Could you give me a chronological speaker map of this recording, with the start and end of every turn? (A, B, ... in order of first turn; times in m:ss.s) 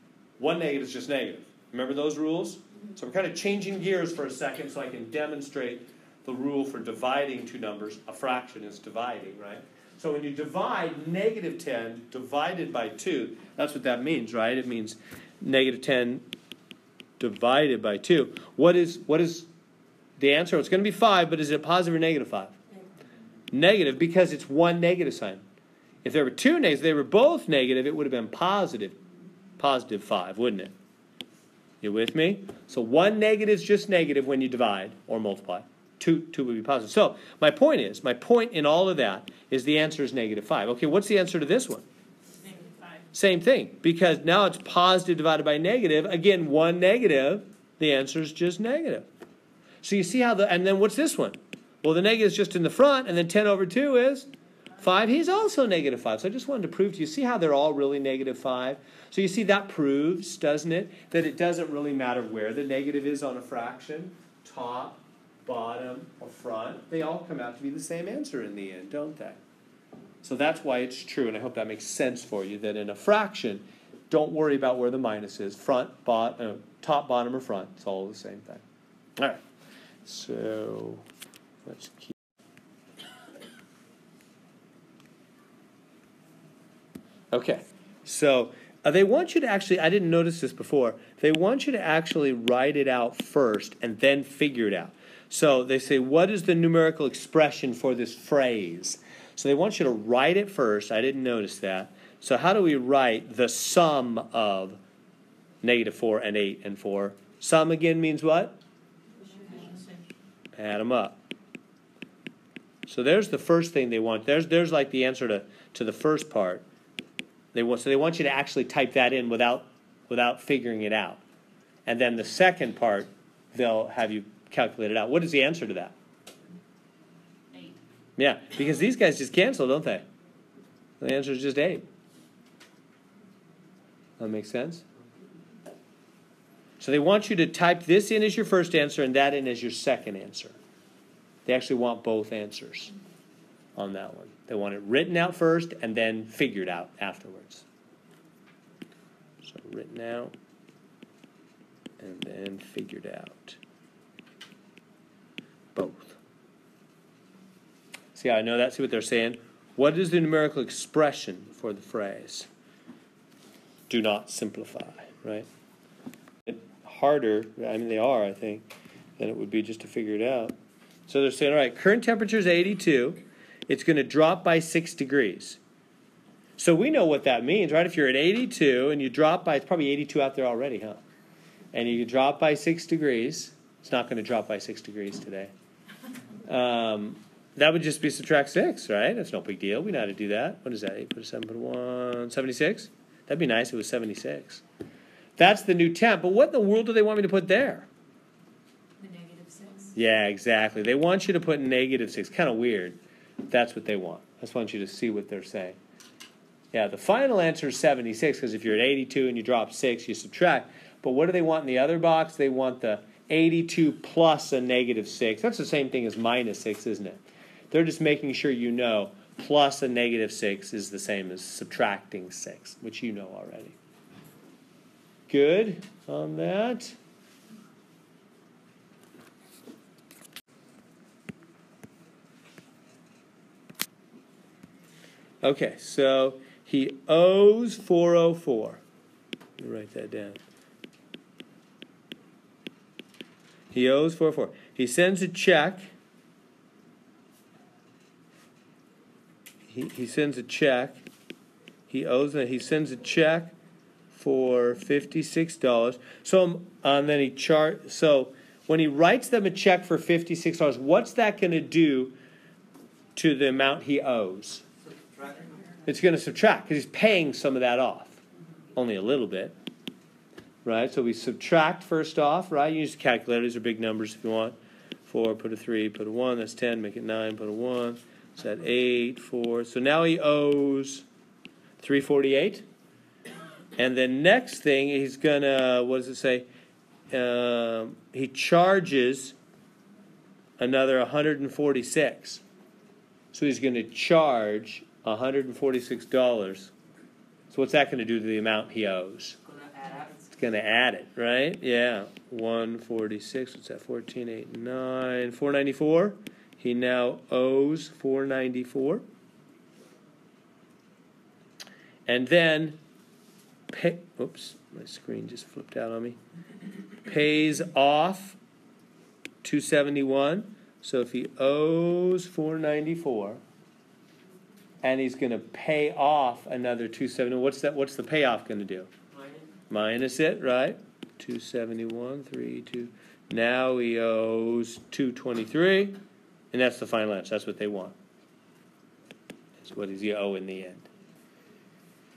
0:00.4-0:16.3 A
0:17.2-0:19.5 A
0:20.2-0:22.6 A
0:23.5-0:25.4 A
0:26.0-0:29.0 A
0:29.6-0:30.7 A
0:31.8-0:41.8 A
0:42.4-0:43.0 B
0:43.1-0:49.1 A
0:49.8-0:54.3 A
0:54.8-1:09.4 A
1:10.2-1:18.6 A
1:19.2-1:19.4 A
1:20.0-1:21.0 A
1:21.6-1:22.1 A
1:27.3-1:44.8 A
1:45.6-1:48.6 A
1:49.2-1:49.9 B
1:50.6-1:51.2 A
1:52.9-1:56.6 A
1:57.5-2:01.2 A
2:01.9-2:05.9 A
2:08.2-2:10.0 A
2:11.0-2:11.8 A
2:14.2-2:14.8 A
2:16.8-2:20.6 A
2:21.5-2:22.9 A
2:23.8-2:27.6 A
2:29.4-2:30.3 A
2:32.0-2:33.6 A
2:35.8-2:36.2 A
2:38.1-2:42.5 A
2:43.9-2:45.5 A
2:46.5-2:50.6 A
2:51.1-2:55.6 A
2:56.6-3:01.0 A
3:01.7-3:05.5 A
3:06.5-3:14.6 A
3:15.4-3:17.9 A
3:19.0-3:19.9 B
3:20.0-3:25.8 A
3:26.7-3:43.8 A
3:45.3-3:47.0 A
3:55.4-3:58.8 A
3:59.6-4:00.4 A
4:03.7-4:05.9 A
4:09.7-4:11.0 A
4:11.9-4:13.5 A
4:14.1-4:22.2 A
4:23.2-4:24.6 A
4:24.9-4:25.7 C
4:25.9-4:28.2 A
4:28.7-4:29.6 A
4:30.6-4:41.0 A
4:41.8-4:42.6 A
4:43.8-4:46.5 A
4:47.1-4:49.4 A
4:50.6-4:52.4 A
4:53.3-4:56.7 A
4:57.5-4:59.4 A
4:59.4-5:00.3 C
5:00.3-5:09.0 A
5:12.1-5:12.8 A
5:13.7-5:16.2 A
5:17.0-5:18.4 A
5:19.4-5:23.4 A
5:24.8-5:28.9 A
5:29.2-5:29.4 C
5:29.7-5:36.0 A
5:36.5-5:38.0 A
5:39.6-5:40.9 A